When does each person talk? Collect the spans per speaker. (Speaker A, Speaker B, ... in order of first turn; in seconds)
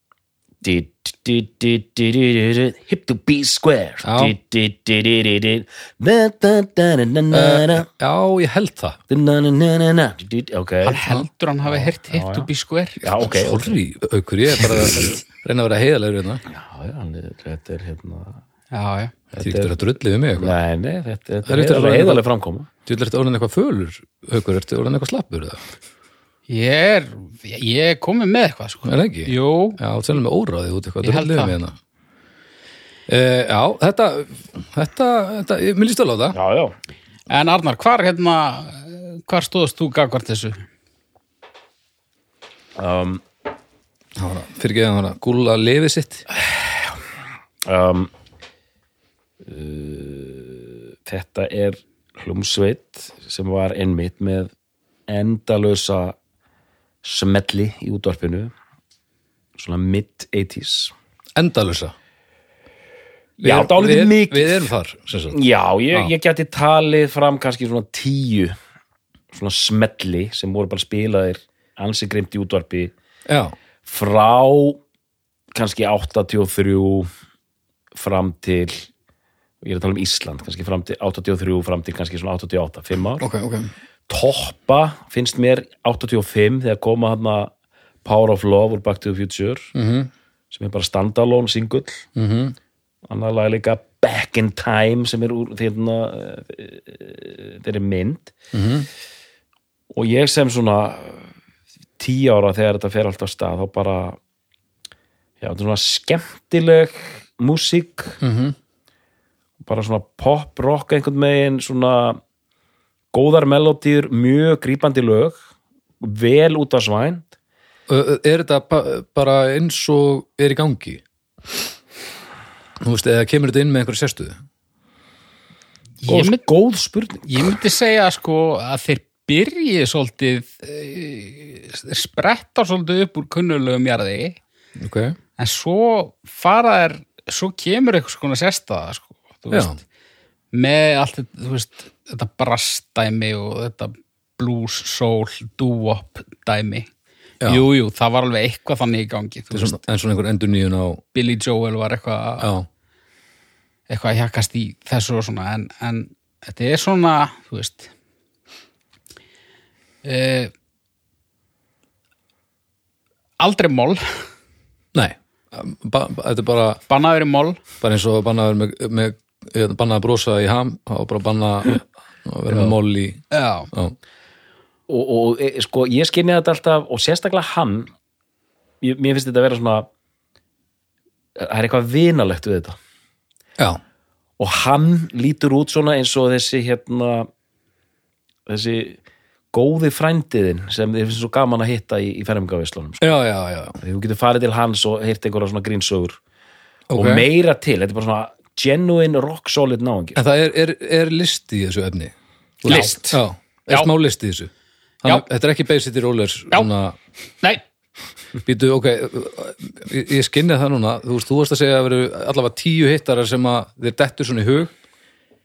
Speaker A: 0.6-7.8, 9.1-11.0, 11.6-12.5, 13.0-13.8, 14.6-14.9, 16.5-18.4, 19.3-19.7, 20.4-22.7, 36.3-36.8, 42.8-43.2, 47.7-48.1, 49.5-54.5, 55.1-56.1, 57.0-58.5, 59.6-60.9, 63.4-64.7, 65.3-68.6, 69.3-72.9, 73.8-74.8, 75.5-77.1, 77.9-78.9, 79.6-83.2, 84.1-87.5, 88.0-89.7, 90.5-92.1, 93.1-98.3, 99.9-101.3, 102.0-104.2, 105.4-108.2, 109.7-112.2, 113.1-115.4, 116.0-117.3, 126.1-127.5, 174.9-177.9, 178.8-179.9, 181.4-182.8, 184.4-187.3, 188.5-189.0, 189.5-193.1, 193.8-196.2, 196.9-200.2, 202.7-203.0
Speaker B: 4.0-4.4, 7.3-9.0, 13.2-16.4, 19.4-20.6, 21.5-22.2, 22.9-25.6, 28.8-31.8, 33.1-36.4, 44.2-46.2, 61.4-61.9, 63.4-65.4, 73.3-73.6, 83.2-83.7, 89.8-90.1, 92.2-92.5, 98.5-98.9, 108.2-108.6, 117.9-121.0, 122.8-124.4, 134.8-135.2, 139.5-139.8, 149.5-151.0, 152.4-152.7, 164.9-166.8, 167.8-174.0, 193.0-193.8, 196.9-197.3, 200.2-204.5, 205.0-207.0, 208.4-214.7
Speaker C: 10.8-13.0, 18.7-19.1, 26.5-29.8, 31.0-31.6, 37.3-40.6, 126.0-126.4, 127.3-134.4, 135.4-139.8, 140.5-146.9, 147.4-149.8, 151.1-152.5, 153.9-157.9, 160.0-160.5, 163.4-164.3, 166.9-167.6, 173.3-173.7, 202.7-203.2